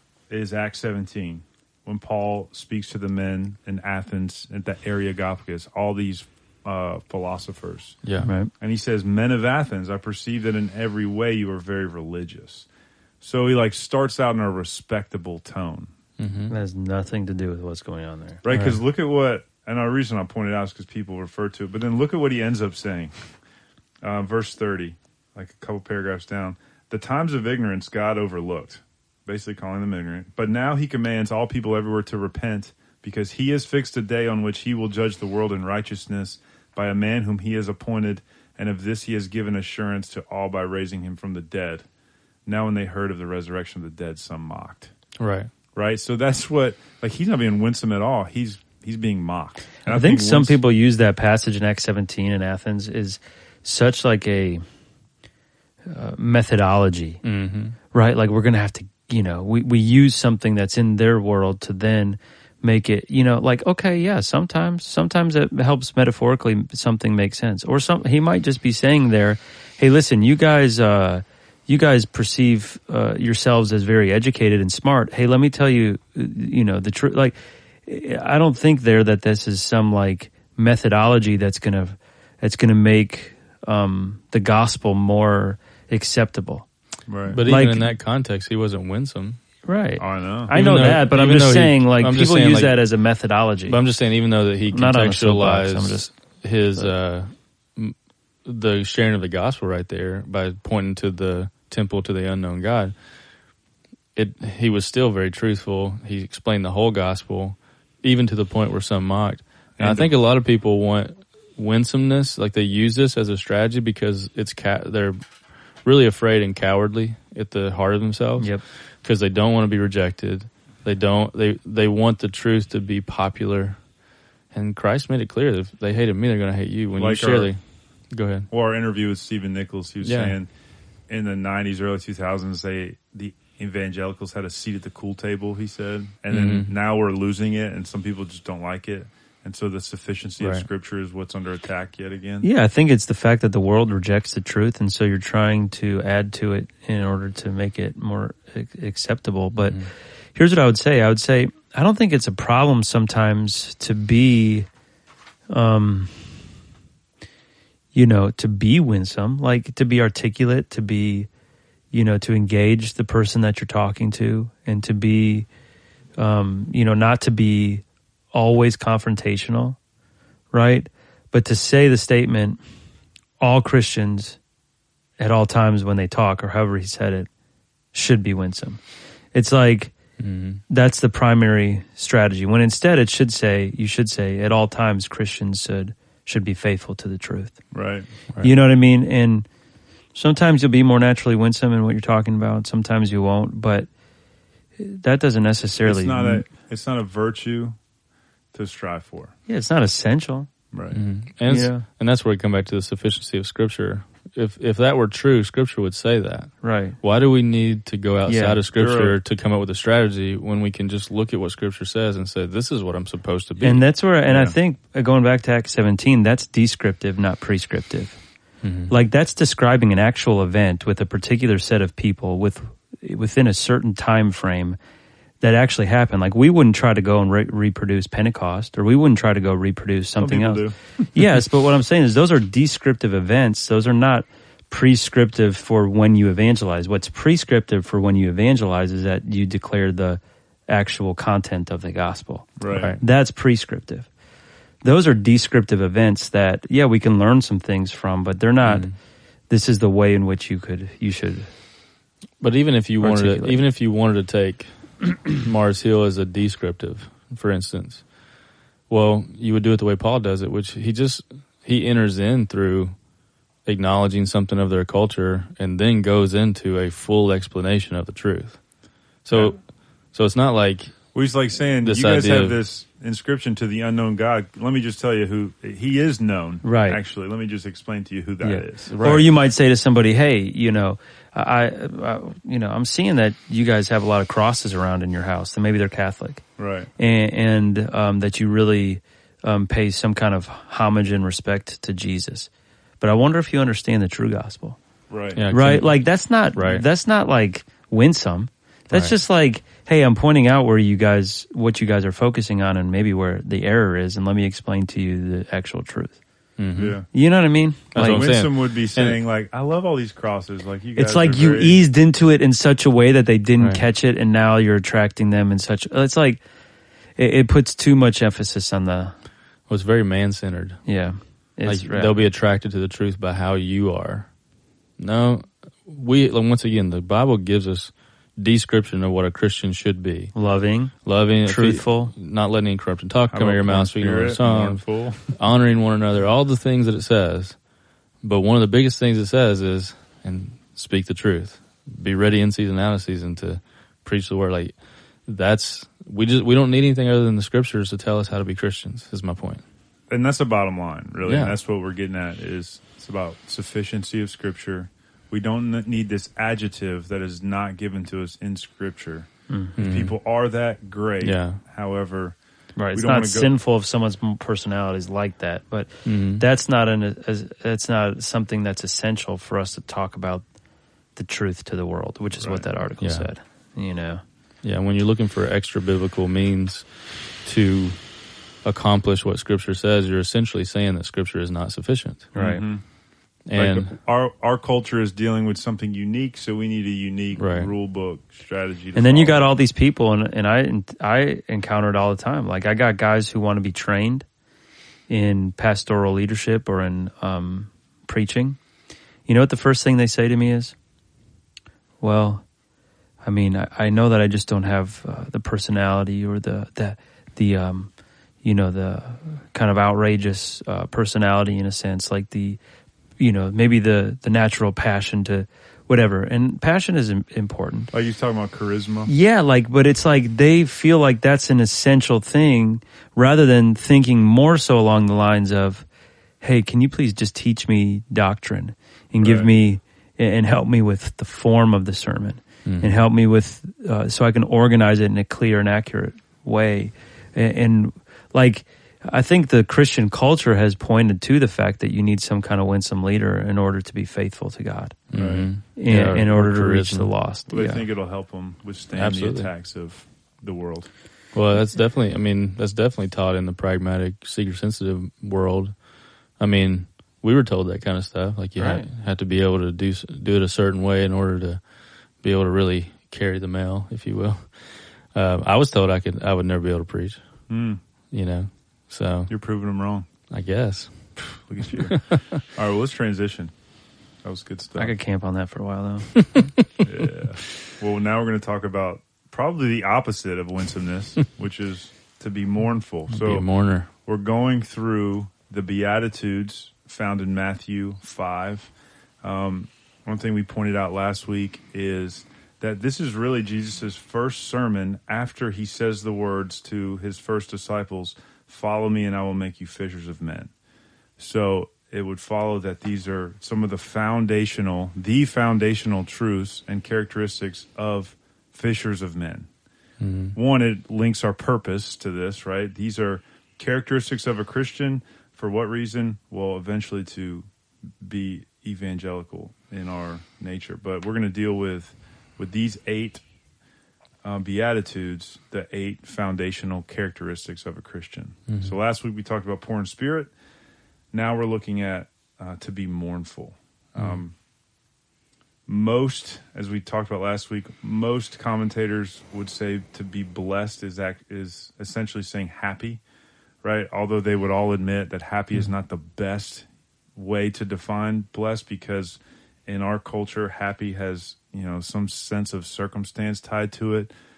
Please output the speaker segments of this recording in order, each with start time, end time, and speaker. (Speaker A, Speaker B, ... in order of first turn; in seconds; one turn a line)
Speaker A: 0.3-12.7
Speaker B: 8.0-8.3
Speaker C: 8.2-8.5
Speaker A: 13.2-15.9
Speaker B: 16.2-16.5
Speaker C: 16.5-18.4
Speaker A: 18.4-23.2
Speaker B: 18.5-18.8
Speaker A: 24.0-41.9
Speaker A: 42.5-44.9
Speaker B: 45.2-45.5
Speaker A: 45.8-50.6
Speaker C: 49.9-54.6
Speaker C: 55.9-57.2
Speaker B: 57.2-57.8
Speaker C: 57.9-86.7
Speaker A: 87.1-87.4
Speaker B: 87.3-89.4
Speaker C: 87.4-87.9
Speaker C: 89.7-93.8
Speaker A: 90.0-90.5
Speaker B: 90.5-92.8
Speaker B: 93.7-103.0
Speaker C: 94.7-96.1
Speaker B: 104.2-115.2
Speaker A: 109.8-110.1
Speaker B: 115.8-123.8
Speaker C: 118.4-118.6
Speaker B: 124.5-127.6
Speaker A: 127.0-127.5
Speaker B: 128.1-128.5
Speaker A: 128.5-130.5
Speaker B: 130.0-130.4
Speaker A: 131.1-142.5
Speaker B: 136.3-136.7
Speaker C: 140.4-140.6
Speaker C: 142.4-154.7
Speaker C: 155.5-156.3
Speaker C: 157.9-161.3
Speaker C: 161.9-165.5
Speaker C: 166.2-169.8
Speaker C: 170.5-172.6
Speaker C: 173.4-174.4
Speaker C: 175.2-177.3
Speaker C: 177.9-178.8
Speaker C: 179.3-179.9
Speaker B: 180.2-180.6
Speaker C: 180.7-187.6
Speaker A: 187.7-188.1
Speaker C: 188.4-189.5
Speaker C: 190.1-193.9
Speaker C: 194.8-196.5
Speaker A: 195.8-197.8
Speaker A: 198.5-199.3
Speaker C: 199.5-200.5
Speaker A: 200.7-201.0
Speaker B: 200.9-213.8
Speaker C: 201.5-201.8
Speaker C: 206.6-207.0
Speaker C: 208.3-208.6
Speaker A: 208.7-209.2
Speaker C: 213.6-218.2
Speaker A: 214.3-214.6
Speaker B: 218.6-218.9
Speaker C: 218.9-224.8
Speaker C: 225.4-244.1
Speaker A: 230.2-231.1
Speaker A: 242.6-243.0
Speaker B: 242.7-243.0
Speaker C: 244.8-248.9
Speaker B: 248.6-248.9
Speaker C: 249.5-251.5
Speaker B: 252.4-258.1
Speaker C: 253.0-253.6
Speaker B: 258.9-262.9
Speaker B: 263.6-268.6
Speaker B: 269.2-271.1
Speaker A: 269.3-269.6
Speaker A: 271.1-279.3
Speaker B: 271.8-272.6
Speaker C: 276.6-277.0
Speaker C: 278.4-286.4
Speaker B: 278.9-279.1
Speaker A: 286.6-286.9
Speaker C: 287.0-292.5
Speaker C: 293.0-294.8
Speaker A: 295.1-295.4
Speaker B: 295.4-296.8
Speaker C: 295.5-306.2
Speaker B: 306.6-307.0
Speaker A: 306.8-307.1
Speaker C: 307.1-308.2
Speaker B: 307.9-309.2
Speaker A: 307.9-311.8
Speaker C: 311.0-316.4
Speaker C: 317.2-319.1
Speaker B: 319.7-320.9
Speaker C: 320.9-322.2
Speaker B: 321.6-324.3
Speaker B: 325.0-330.3
Speaker C: 330.3-332.1
Speaker B: 331.0-337.6
Speaker A: 333.3-335.4
Speaker B: 338.2-344.8
Speaker B: 345.3-349.6
Speaker A: 350.1-362.4
Speaker B: 351.2-351.6
Speaker B: 359.8-360.1
Speaker B: 361.2-361.6
Speaker C: 362.8-370.4
Speaker A: 362.9-363.5
Speaker B: 366.1-366.4
Speaker C: 371.1-374.2
Speaker A: 372.4-372.7
Speaker B: 373.0-373.3
Speaker B: 374.6-376.9
Speaker B: 377.4-378.0
Speaker B: 378.6-382.3
Speaker C: 382.3-382.6
Speaker A: 382.4-382.8
Speaker B: 383.5-383.9
Speaker A: 383.5-389.5
Speaker B: 387.4-387.7
Speaker C: 388.9-394.3
Speaker C: 395.1-398.6
Speaker C: 399.3-400.8
Speaker C: 402.0-402.5
Speaker C: 403.2-407.9
Speaker C: 408.4-412.6
Speaker C: 413.2-417.9
Speaker A: 417.9-419.1
Speaker C: 419.1-425.9
Speaker C: 426.4-445.0
Speaker A: 429.2-429.5
Speaker B: 432.7-432.9
Speaker B: 445.1-447.1
Speaker A: 445.1-445.5
Speaker C: 445.6-447.9
Speaker A: 447.5-450.9
Speaker B: 448.9-449.5
Speaker B: 451.3-455.7
Speaker B: 456.4-461.6
Speaker C: 458.6-458.9
Speaker B: 462.2-464.5
Speaker B: 465.1-467.2
Speaker A: 467.5-467.8
Speaker B: 468.1-469.3
Speaker A: 469.3-470.1
Speaker B: 470.3-472.4
Speaker A: 471.4-473.5
Speaker A: 474.2-474.9
Speaker C: 474.8-476.5
Speaker A: 476.8-483.5
Speaker B: 483.1-483.9
Speaker A: 484.1-488.7
Speaker A: 489.2-500.5
Speaker A: 501.2-509.5
Speaker B: 510.0-510.4
Speaker A: 510.4-517.5
Speaker A: 518.0-523.2
Speaker A: 524.2-530.3
Speaker B: 528.5-528.8
Speaker A: 531.1-534.3
Speaker B: 534.0-534.2
Speaker A: 535.7-543.0
Speaker A: 543.6-554.1